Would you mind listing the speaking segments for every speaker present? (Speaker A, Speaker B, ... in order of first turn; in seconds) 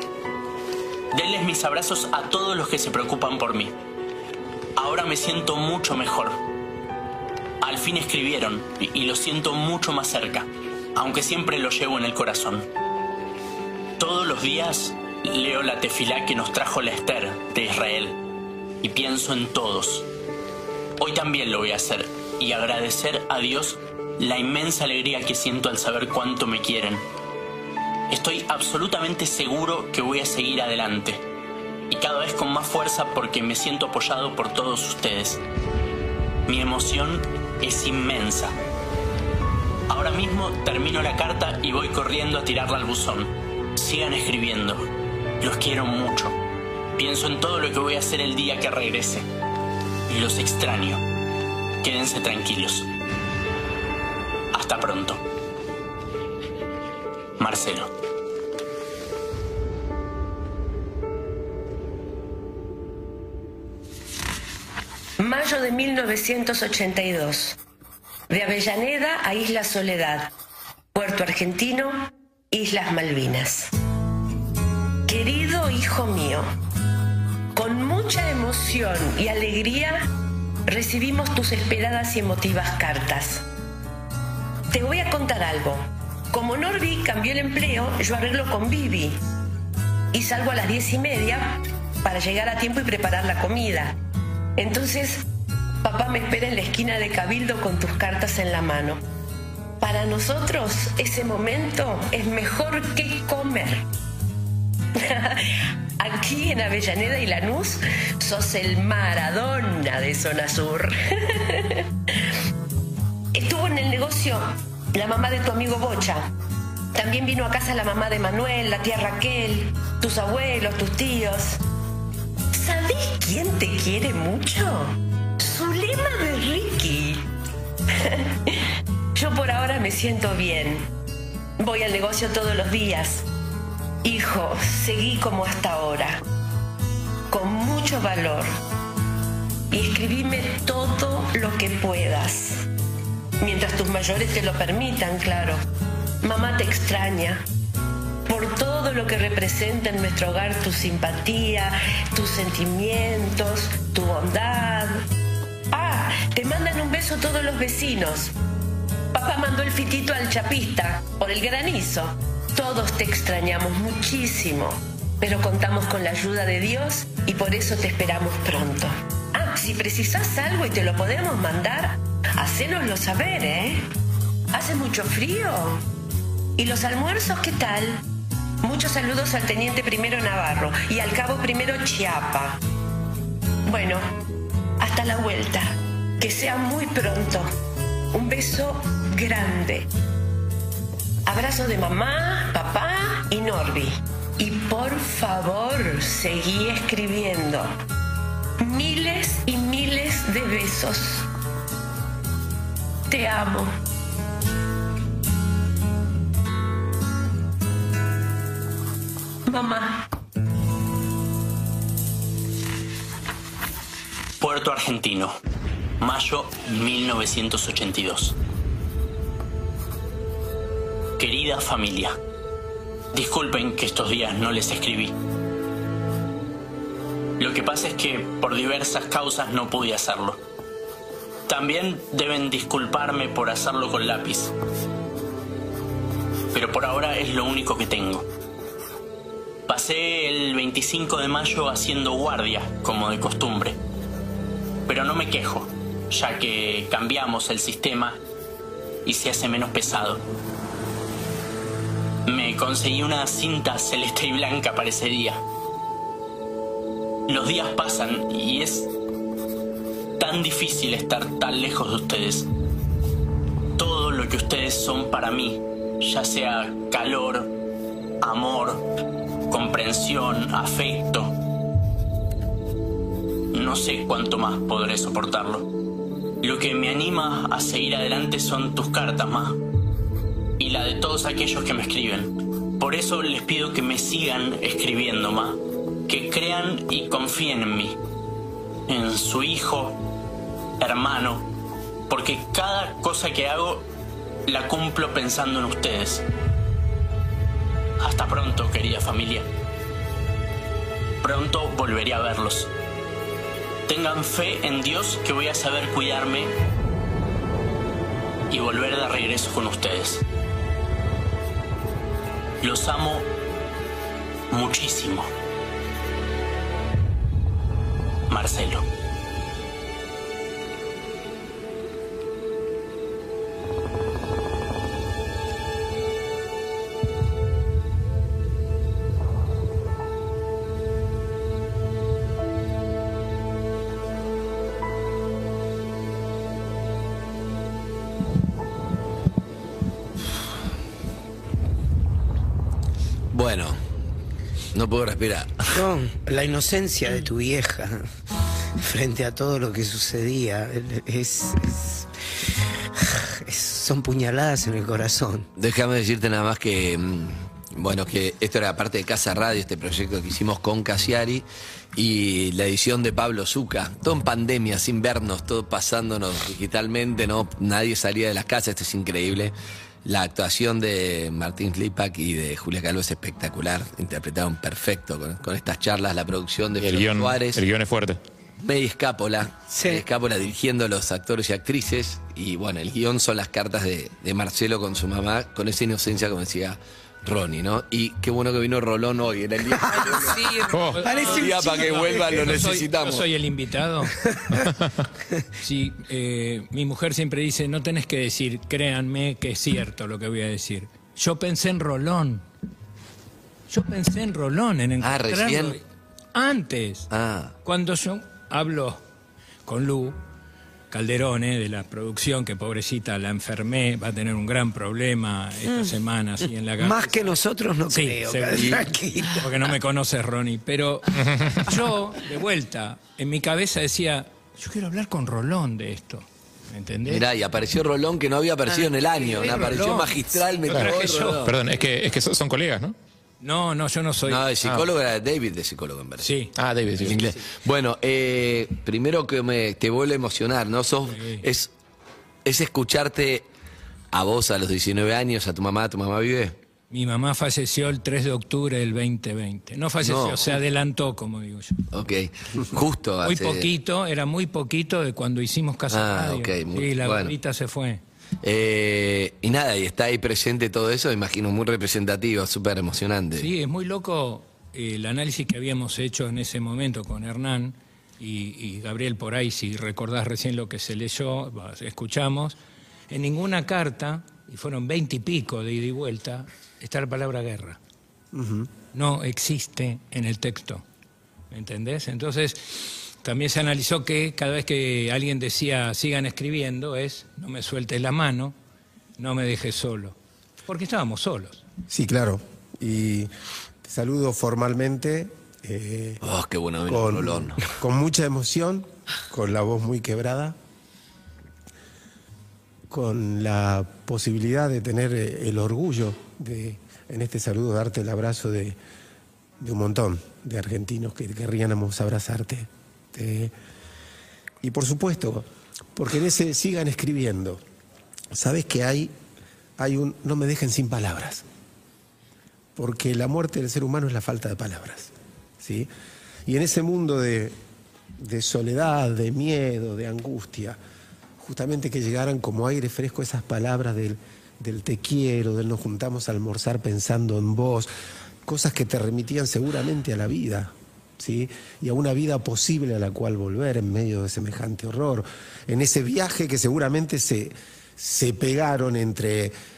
Speaker A: 1.1-3.7, 4.8-6.4, 7.6-12.7, 14.0-18.2, 18.8-20.1, 21.0-27.0, 28.1-31.2, 31.9-35.4, 36.5-38.5, 39.9-44.9, 45.4-46.4, 47.0-49.2, 50.1-51.0, 51.8-52.9, 54.5-55.2, 57.4-57.9, 214.4-215.4, 216.0-218.3, 221.2-222.2, 223.1-225.1, 227.4-230.4, 231.5-234.5, 236.5-238.2, 239.7-243.8, 244.9-248.2, 249.1-250.2, 252.3-255.4, 257.3-258.9, 260.2-262.5, 263.8-267.5, 268.2-268.8, 269.5-271.3, 273.5-275.7, 276.4-279.6, 280.6-288.0, 288.9-290.0, 290.8-291.5, 292.1-293.9, 294.5-296.2, 298.0-299.4, 301.2-302.7, 303.9-306.5, 308.5-310.2, 312.6-313.3, 314.5-315.3, 318.3-318.8
Speaker B: 65.2-67.6, 68.3-70.3, 70.9-73.7, 75.1-76.5, 77.5-80.1, 80.7-83.4, 84.7-89.2, 90.1-94.0, 94.6-95.2, 95.8-99.0, 99.8-103.8, 104.9-112.3, 113.3-116.3, 116.9-121.6, 122.5-127.2, 127.9-130.9, 131.6-133.2, 134.0-136.2, 137.3-138.5, 139.7-142.7, 143.4-145.6, 146.2-147.4, 148.3-155.0, 155.7-158.3, 159.1-173.8, 174.5-175.8, 176.6-178.0, 178.6-182.6, 183.6-184.1, 184.8-187.5, 188.1-189.9, 191.2-197.7, 198.6-201.2, 203.1-203.7, 209.5-210.1
Speaker C: 343.3-343.8, 344.7-345.7, 355.6-377.6, 378.6-390.6, 391.3-393.2, 405.0-405.8, 407.1-407.5, 427.1-431.5, 434.3-436.3, 437.0-441.7, 442.4-443.4, 444.1-446.6, 450.0-450.5, 451.9-453.7, 455.9-457.3, 458.4-463.5, 496.2-497.6
Speaker D: 345.7-348.1, 348.8-352.2, 353.4-355.4, 379.7-380.1, 389.7-392.5, 416.8-419.6
Speaker E: 376.8-378.2, 390.7-391.1, 421.2-421.6, 430.7-432.9, 434.6-434.9, 436.6-437.2
Speaker F: 390.9-394.1, 395.6-402.4, 403.7-405.8, 406.3-407.1, 407.6-409.0, 409.7-410.2, 410.9-417.4, 417.9-427.2, 429.3-431.6, 433.4-434.4, 436.2-436.6, 441.1-441.5, 446.9-451.8, 453.2-458.0, 463.3-472.6, 473.1-477.8, 478.9-480.8, 481.5-488.6, 489.2-491.6
Speaker G: 478.3-478.7, 491.9-493.3, 493.8-496.2, 496.9-500.6, 502.9-508.8, 509.6-513.5, 514.6-517.6, 518.3-519.1, 519.8-521.4, 522.8-525.9, 526.5-527.5, 528.2-530.8, 531.4-537.9, 538.5-549.5